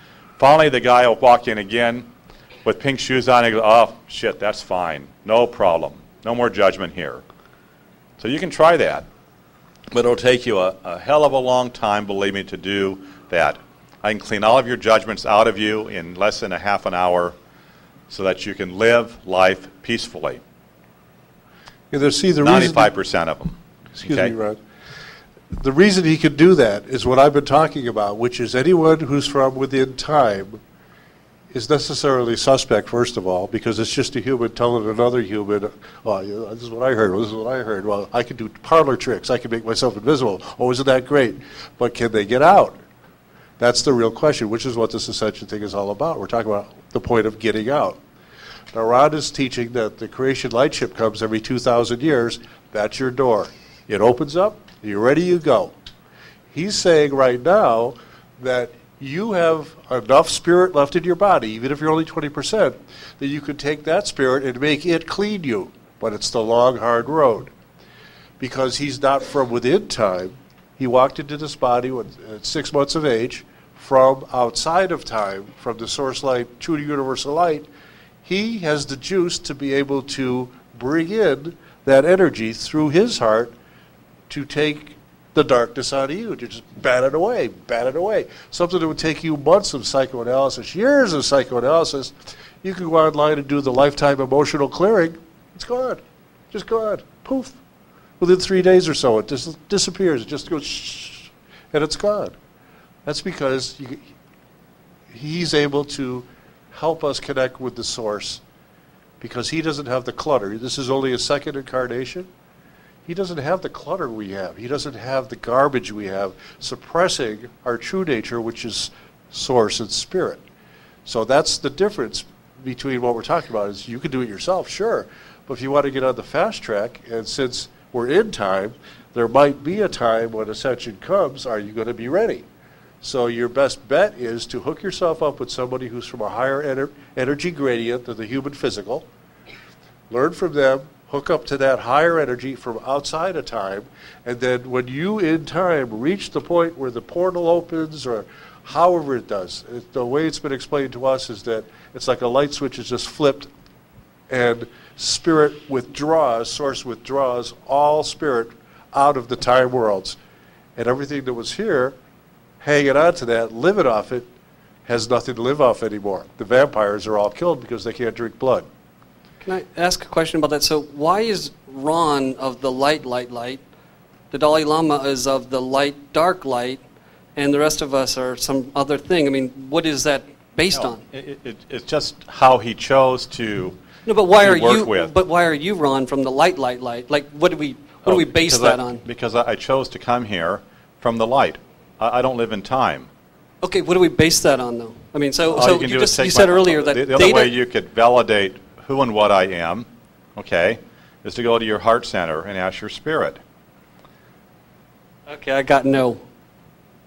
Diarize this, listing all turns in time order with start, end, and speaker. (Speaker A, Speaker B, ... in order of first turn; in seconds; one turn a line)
Speaker A: 0.4-2.1
Speaker A: 2.6-7.2
Speaker A: 8.2-9.1
Speaker A: 9.9-17.4
Speaker A: 18.1-20.4
Speaker B: 21.9-22.9
Speaker A: 22.4-24.4
Speaker B: 23.9-24.6
Speaker B: 25.6-30.6
Speaker B: 31.5-42.8
Speaker B: 43.6-48.0
Speaker B: 48.7-55.7
Speaker B: 56.5-67.5
Speaker B: 68.4-77.7
Speaker B: 78.2-83.5
Speaker B: 84.3-96.0
Speaker B: 96.5-97.6
Speaker B: 98.2-102.4
Speaker B: 103.1-104.0
Speaker B: 105.1-108.4
Speaker B: 109.2-112.3
Speaker B: 113.1-120.4
Speaker B: 121.1-132.5
Speaker B: 133.0-139.1
Speaker B: 140.1-153.5
Speaker B: 154.3-160.2
Speaker B: 160.8-162.0
Speaker B: 162.6-164.3
Speaker B: 164.9-168.7
Speaker C: 169.4-173.6
Speaker C: 174.3-176.8
Speaker C: 177.4-181.0
Speaker A: 180.7-183.8
Speaker C: 184.1-189.0
Speaker A: 184.3-185.1
Speaker A: 188.0-193.1
Speaker C: 193.6-197.6
Speaker A: 195.5-203.4
Speaker C: 205.3-206.2